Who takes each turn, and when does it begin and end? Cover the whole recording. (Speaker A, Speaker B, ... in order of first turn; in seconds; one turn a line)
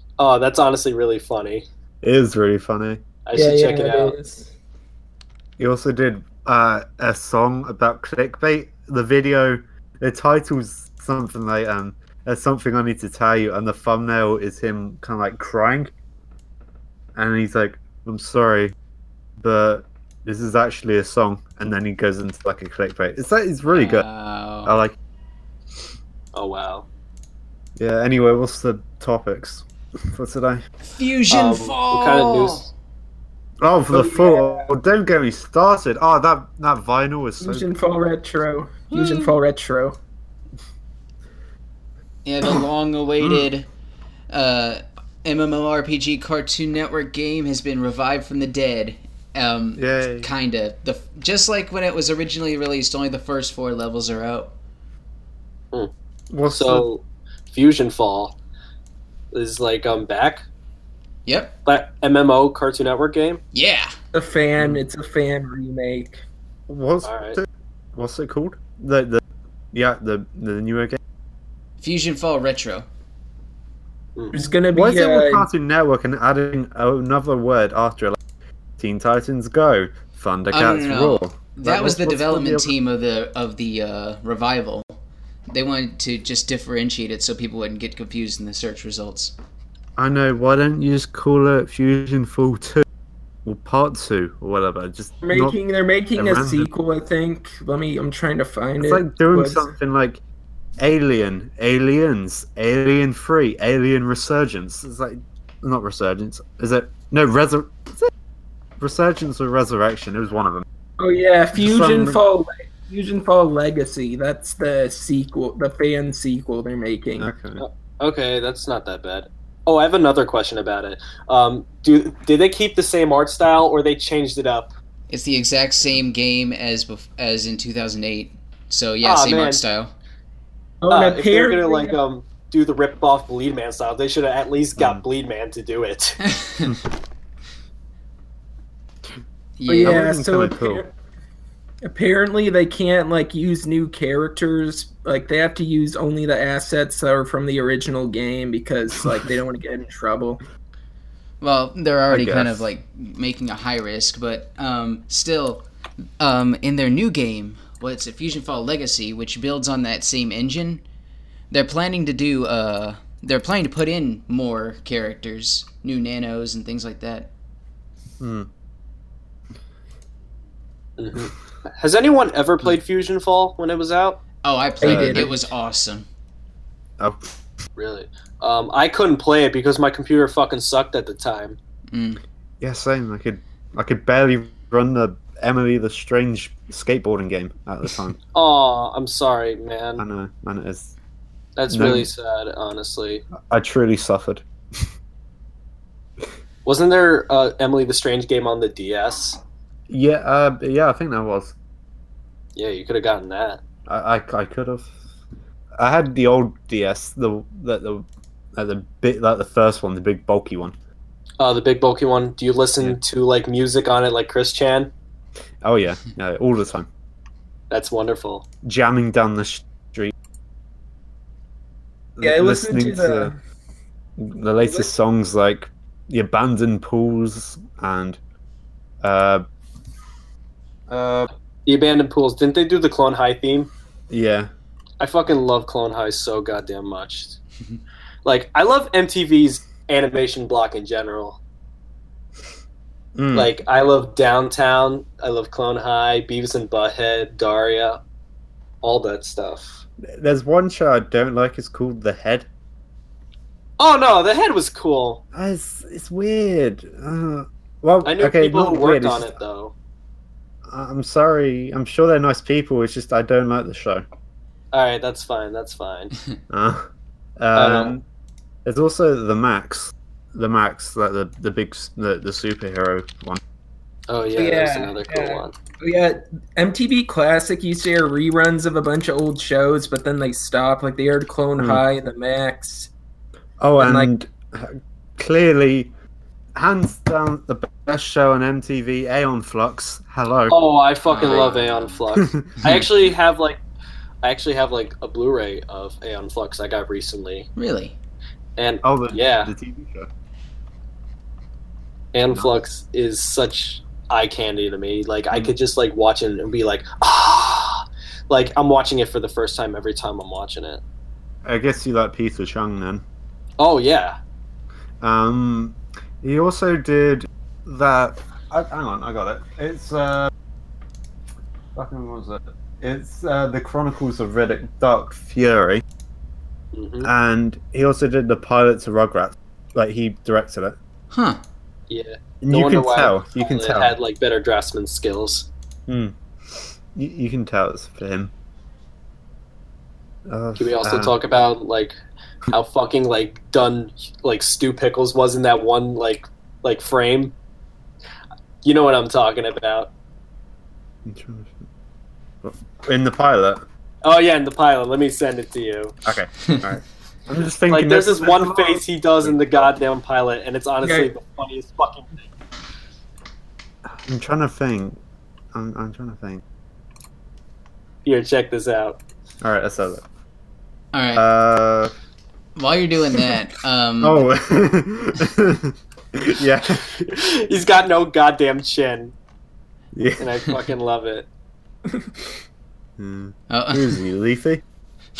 Speaker A: 0.2-1.6
Speaker B: 2.0-3.0
Speaker A: 3.2-4.2
Speaker C: 3.3-4.5
Speaker B: 5.6-15.9
Speaker B: 17.1-18.7
Speaker B: 19.4-24.1
Speaker D: 23.7-24.8
Speaker B: 24.6-24.9
Speaker A: 26.3-26.9
Speaker B: 27.8-30.6
Speaker D: 30.8-32.7
Speaker A: 31.3-32.7
Speaker B: 33.6-37.7
Speaker C: 33.9-34.7
Speaker C: 37.4-40.0
Speaker D: 38.9-39.3
Speaker D: 42.2-43.7
Speaker B: 43.2-43.5
Speaker D: 44.3-54.5
Speaker B: 49.8-50.3
Speaker B: 56.3-56.9
Speaker A: 56.5-58.4
Speaker A: 59.3-60.4
Speaker D: 61.2-61.6
Speaker A: 61.6-63.4
Speaker D: 63.5-63.9
Speaker C: 64.1-66.2
Speaker B: 66.7-71.0
Speaker A: 67.0-67.4
Speaker D: 71.8-72.9
Speaker A: 74.2-74.4
Speaker C: 74.3-75.5
Speaker B: 74.7-78.2
Speaker B: 78.8-82.7
Speaker D: 80.5-85.0
Speaker D: 85.5-89.3
Speaker B: 90.0-92.8
Speaker B: 93.4-95.6
Speaker C: 95.2-99.7
Speaker B: 96.2-96.7
Speaker B: 98.8-100.2
Speaker B: 100.8-108.1
Speaker B: 108.8-110.6
Speaker C: 111.0-117.3
Speaker B: 111.6-112.2
Speaker B: 117.2-117.6
Speaker A: 117.6-124.7
Speaker D: 125.1-129.9
Speaker A: 129.0-129.6
Speaker C: 130.8-132.0
Speaker A: 130.9-136.2
Speaker B: 134.8-135.0
Speaker D: 136.2-136.8
Speaker D: 139.6-140.0
Speaker C: 139.7-140.9
Speaker B: 139.8-140.8
Speaker C: 141.8-150.4
Speaker D: 151.4-155.6
Speaker B: 152.1-152.6
Speaker D: 156.2-160.8
Speaker D: 161.5-167.3
Speaker B: 168.2-168.5
Speaker A: 171.0-174.2
Speaker D: 174.4-176.1
Speaker C: 174.8-175.3
Speaker B: 174.8-175.3
Speaker B: 177.0-177.3
Speaker A: 177.8-181.6
Speaker D: 181.9-182.2
Speaker B: 182.6-188.2
Speaker A: 188.3-190.0
Speaker B: 190.0-190.9
Speaker A: 191.6-193.2
Speaker B: 191.7-192.1
Speaker B: 193.4-194.8
Speaker A: 196.6-199.4
Speaker B: 199.9-201.5
Speaker A: 202.5-203.6
Speaker B: 203.9-204.9
Speaker B: 205.8-210.7
Speaker A: 211.4-214.9
Speaker B: 215.6-216.9
Speaker A: 217.7-218.4
Speaker B: 218.6-220.1
Speaker B: 222.2-223.3
Speaker C: 222.2-223.4
Speaker B: 224.2-228.2
Speaker B: 229.0-229.4
Speaker B: 230.9-231.3
Speaker A: 231.7-233.7
Speaker B: 234.1-234.5
Speaker A: 235.0-237.4
Speaker A: 238.2-241.4
Speaker B: 243.2-243.5
Speaker A: 243.3-248.0
Speaker A: 248.8-249.8
Speaker B: 250.2-252.5
Speaker A: 253.8-255.2
Speaker B: 255.3-259.4
Speaker A: 258.0-259.7
Speaker B: 260.7-264.0
Speaker A: 264.7-266.1
Speaker B: 266.5-268.0
Speaker A: 267.5-267.9
Speaker B: 268.6-273.4
Speaker A: 274.1-275.6
Speaker C: 274.4-282.9
Speaker B: 281.6-281.8
Speaker B: 283.6-285.9
Speaker C: 283.8-284.1
Speaker B: 286.6-290.6
Speaker A: 290.5-293.6
Speaker D: 291.1-291.9
Speaker B: 291.2-291.6
Speaker B: 292.1-292.8
Speaker A: 294.2-297.5
Speaker D: 297.6-297.9
Speaker A: 298.6-299.5
Speaker B: 298.8-300.1
Speaker A: 302.1-310.8
Speaker B: 311.4-313.0
Speaker A: 313.6-314.2
Speaker B: 315.0-320.3
Speaker B: 321.7-325.8
Speaker A: 326.7-327.1
Speaker B: 327.0-330.8
Speaker D: 331.1-331.4
Speaker A: 331.9-335.5
Speaker B: 332.4-333.9
Speaker B: 335.9-338.3
Speaker B: 340.3-341.1
Speaker A: 340.6-342.0
Speaker A: 342.5-347.3
Speaker A: 348.6-349.9
Speaker B: 351.0-351.6
Speaker B: 352.4-353.6
Speaker A: 354.0-356.0
Speaker B: 356.0-359.7
Speaker A: 357.7-362.3
Speaker C: 360.8-361.1
Speaker B: 363.9-365.0
Speaker B: 365.5-366.4
Speaker A: 368.0-369.0
Speaker B: 369.4-370.0
Speaker D: 370.9-371.2
Speaker B: 371.1-371.9
Speaker D: 372.6-374.2
Speaker B: 374.0-376.9
Speaker A: 377.0-379.1
Speaker B: 379.9-380.6
Speaker A: 380.2-381.3
Speaker B: 383.0-384.6
Speaker D: 383.5-384.0